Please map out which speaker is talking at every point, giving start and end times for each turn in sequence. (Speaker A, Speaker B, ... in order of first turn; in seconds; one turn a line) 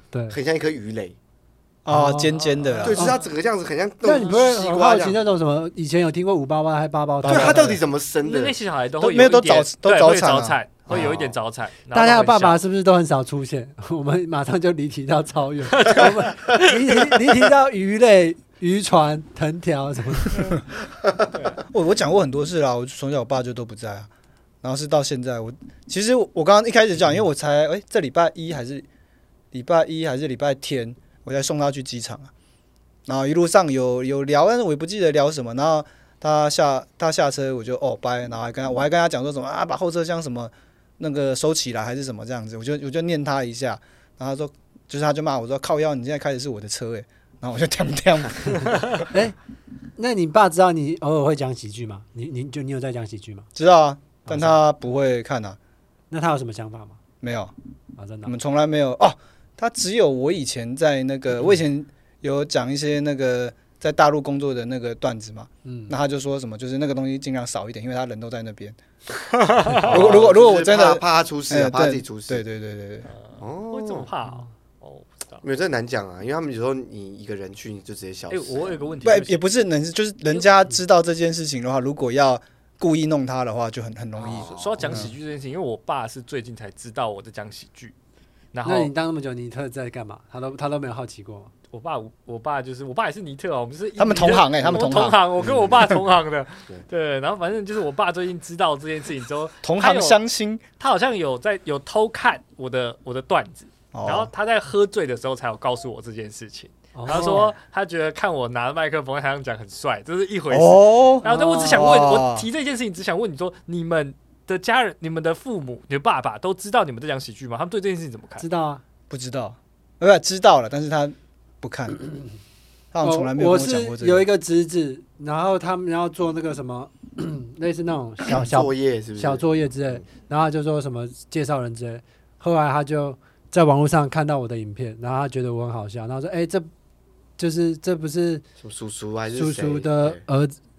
Speaker A: 0.1-0.4
Speaker B: 0.3-1.2
Speaker C: 1.9-3.0
Speaker A: 1.9-2.4
Speaker D: 2.3-3.2
Speaker B: 2.8-5.2
Speaker A: 2.9-3.2
Speaker A: 4.0-7.8
Speaker D: 4.2-4.4
Speaker C: 7.2-7.8
Speaker B: 7.2-8.6
Speaker D: 8.2-12.6
Speaker C: 9.0-10.6
Speaker B: 10.9-11.3
Speaker A: 11.9-20.5
Speaker D: 15.7-17.1
Speaker D: 21.3-21.6
Speaker C: 21.7-24.1
Speaker C: 24.6-28.9
Speaker C: 29.5-32.3
Speaker C: 33.1-48.9
Speaker A: 49.1-49.4
Speaker A: 50.0-53.5
Speaker C: 53.6-55.6
Speaker A: 54.3-54.6
Speaker A: 56.1-57.0
Speaker C: 57.2-57.5
Speaker A: 58.0-58.3
Speaker C: 58.2-68.8
Speaker A: 65.7-65.9
Speaker D: 69.4-70.2
Speaker B: 69.8-72.4
Speaker C: 69.8-73.1
Speaker D: 73.1-75.4
Speaker B: 73.4-74.1
Speaker B: 75.4-78.8
Speaker D: 78.3-79.5
Speaker C: 79.0-85.1
Speaker B: 84.2-85.0
Speaker D: 84.2-87.9
Speaker D: 88.5-88.9
Speaker A: 88.6-91.5
Speaker D: 91.7-100.2
Speaker C: 94.0-95.2
Speaker B: 95.4-95.9
Speaker C: 99.6-100.6
Speaker D: 100.8-118.5
Speaker C: 103.9-104.3
Speaker A: 107.0-107.5
Speaker C: 107.1-107.5
Speaker C: 110.5-112.5
Speaker A: 111.2-111.9
Speaker A: 118.4-118.8
Speaker C: 119.1-122.0
Speaker C: 122.9-124.3
Speaker A: 123.0-136.7
Speaker B: 128.3-129.4
Speaker A: 137.4-138.4
Speaker B: 138.6-140.2
Speaker A: 139.3-140.6